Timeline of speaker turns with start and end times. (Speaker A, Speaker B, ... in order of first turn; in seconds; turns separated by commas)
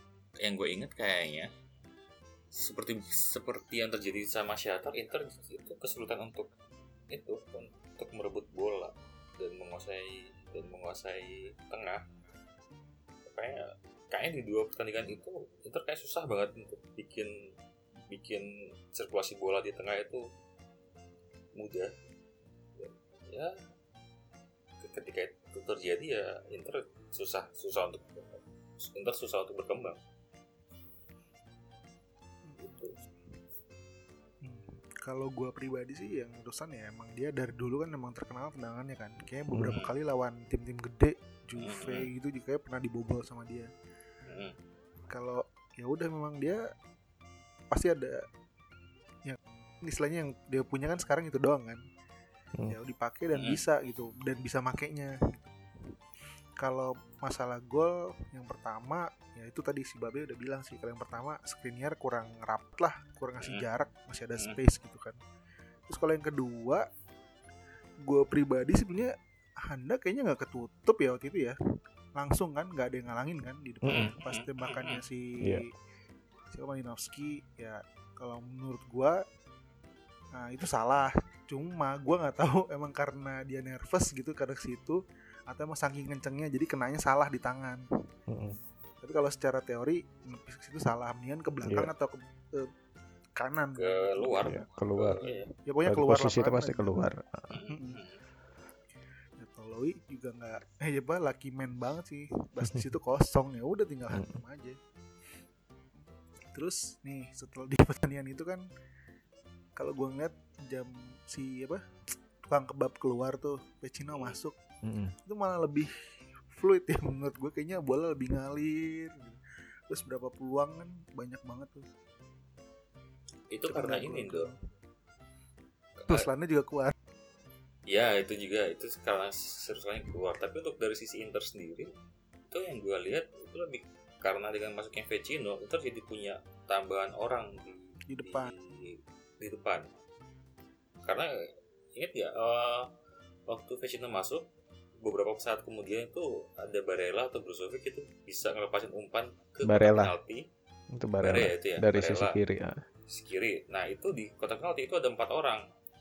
Speaker A: 0.4-1.5, Speaker A: 2.5-6.5, Speaker A: 7.1-12.0, Speaker A: 13.2-17.3, Speaker A: 18.1-20.2, Speaker A: 21.5-21.9, Speaker A: 22.8-23.6, Speaker A: 24.8-30.0, Speaker B: 32.5-33.1, Speaker A: 32.6-33.0, Speaker B: 34.4-43.7, Speaker C: 39.5-39.8, Speaker A: 41.6-42.1, Speaker A: 44.3-44.5, Speaker B: 45.1-46.6, Speaker B: 47.7-48.2, Speaker B: 49.2-51.8, Speaker B: 52.7-55.5, Speaker B: 56.6-65.2, Speaker B: 65.9-66.8, Speaker B: 68.0-71.5, Speaker B: 72.2-75.7, Speaker C: 73.8-74.1, Speaker A: 73.9-75.0, Speaker B: 76.5-79.2, Speaker B: 80.3-87.8, Speaker C: 88.3-88.6, Speaker B: 89.0-92.7, Speaker C: 91.6-91.9, Speaker B: 93.4-94.6, Speaker A: 93.8-95.5, Speaker C: 94.5-95.2, Speaker B: 95.2-97.0, Speaker C: 95.8-97.6, Speaker A: 97.5-98.2, Speaker B: 97.7-98.0, Speaker B: 99.4-104.8, Speaker C: 104.1-104.4, Speaker B: 106.5-108.6, Speaker B: 109.8-111.8, Speaker B: 112.5-114.5, Speaker C: 114.8-115.1, Speaker B: 115.2-115.9, Speaker B: 116.5-121.9, Speaker A: 123.5-124.5, Speaker B: 123.7-124.5, Speaker A: 126.0-126.3, Speaker B: 126.1-126.9, Speaker A: 127.9-131.9, Speaker A: 132.5-139.9, Speaker B: 138.1-138.5, Speaker A: 141.0-142.9, Speaker A: 143.5-144.4, Speaker A: 145.0-150.4, Speaker C: 149.6-150.1, Speaker C: 150.9-152.8, Speaker A: 151.2-152.4, Speaker A: 153.1-155.6